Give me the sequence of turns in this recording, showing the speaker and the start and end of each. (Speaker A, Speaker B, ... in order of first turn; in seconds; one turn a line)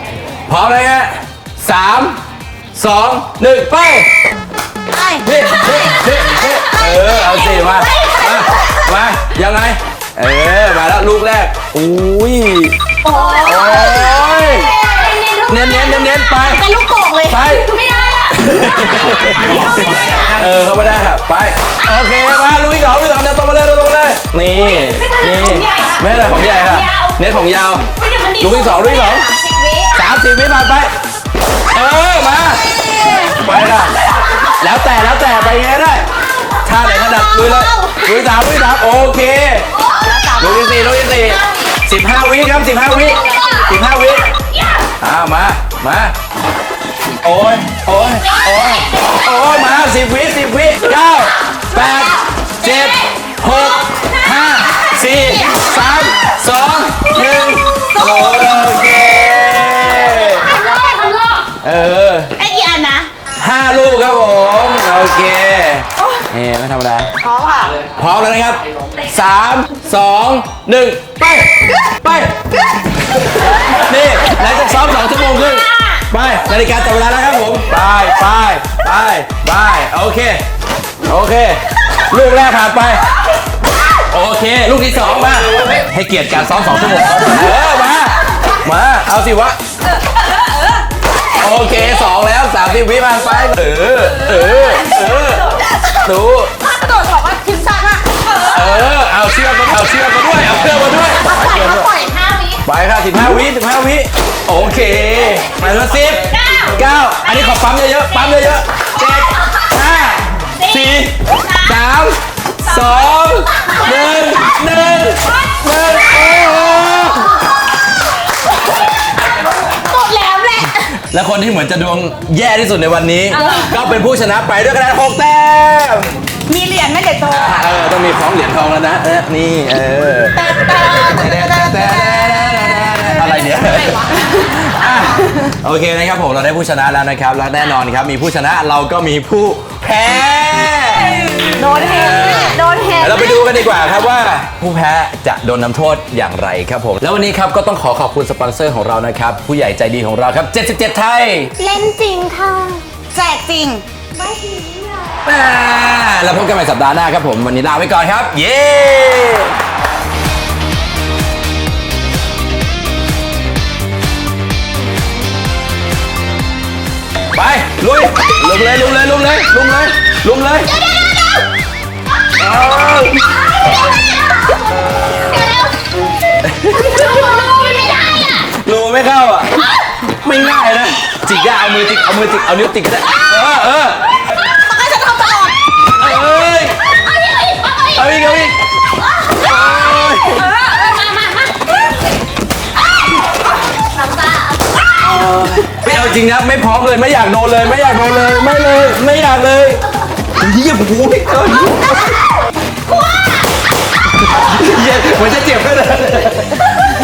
Speaker A: 0.5-2.2
Speaker A: 2.7-4.1
Speaker B: 4.9-5.3
Speaker A: 5.2-12.8
Speaker C: 7.2-7.5
Speaker B: 13.1-13.9
Speaker C: 13.1-16.1
Speaker A: 13.4-14.7
Speaker B: 14.9-15.2
Speaker A: 15.5-16.7
Speaker B: 16.4-17.6
Speaker A: 17.3-17.7
Speaker C: 17.5-20.3
Speaker A: 18.3-29.3
Speaker C: 24.7-27.0
Speaker C: 28.0-30.0
Speaker A: 29.9-30.9
Speaker A: 31.7-32.6
Speaker A: 33.3-36.0
Speaker A: 36.6-39.7
Speaker C: 37.4-37.8
Speaker B: 39.9-40.8
Speaker A: 40.4-44.3
Speaker C: 41.1-41.4
Speaker C: 43.1-43.7
Speaker A: 45.0-46.1
Speaker A: 47.2-60.5
Speaker C: 48.3-48.8
Speaker B: 57.8-58.6
Speaker C: 60.4-61.4
Speaker B: 60.5-61.2
Speaker A: 61.6-62.3
Speaker B: 62.4-63.1
Speaker A: 63.4-67.1
Speaker B: 67.2-67.8
Speaker A: 67.9-71.5
Speaker A: 72.0-72.3
Speaker A: 73.7-80.4
Speaker A: 81.0-83.0
Speaker A: 84.1-89.6
Speaker A: 91.4-95.5
Speaker A: 96.0-96.5
Speaker B: 96.6-98.6
Speaker A: 98.5-101.9
Speaker B: 101.2-102.5
Speaker C: 102.2-102.6
Speaker A: 102.6-117.4
Speaker C: 119.8-120.8
Speaker A: 121.1-126.1
Speaker C: 123.3-123.7
Speaker B: 123.4-123.7
Speaker B: 126.5-127.7
Speaker A: 127.2-151.5
Speaker B: 130.4-134.3
Speaker B: 141.6-143.1
Speaker C: 142.1-143.4
Speaker C: 151.6-152.8
Speaker B: 151.8-152.3
Speaker B: 153.1-153.8
Speaker C: 154.1-155.2
Speaker A: 155.2-159.6
Speaker A: 167.3-170.8
Speaker A: 172.4-173.3
Speaker A: 176.4-177.1
Speaker C: 176.9-178.3
Speaker A: 178.4-184.3
Speaker B: 184.4-185.6
Speaker A: 186.0-186.8
Speaker C: 186.9-188.0
Speaker A: 187.9-188.6
Speaker A: 189.4-190.5
Speaker C: 189.4-191.6
Speaker C: 194.0-194.6
Speaker A: 195.0-199.8
Speaker A: 200.4-202.1
Speaker A: 204.3-206.7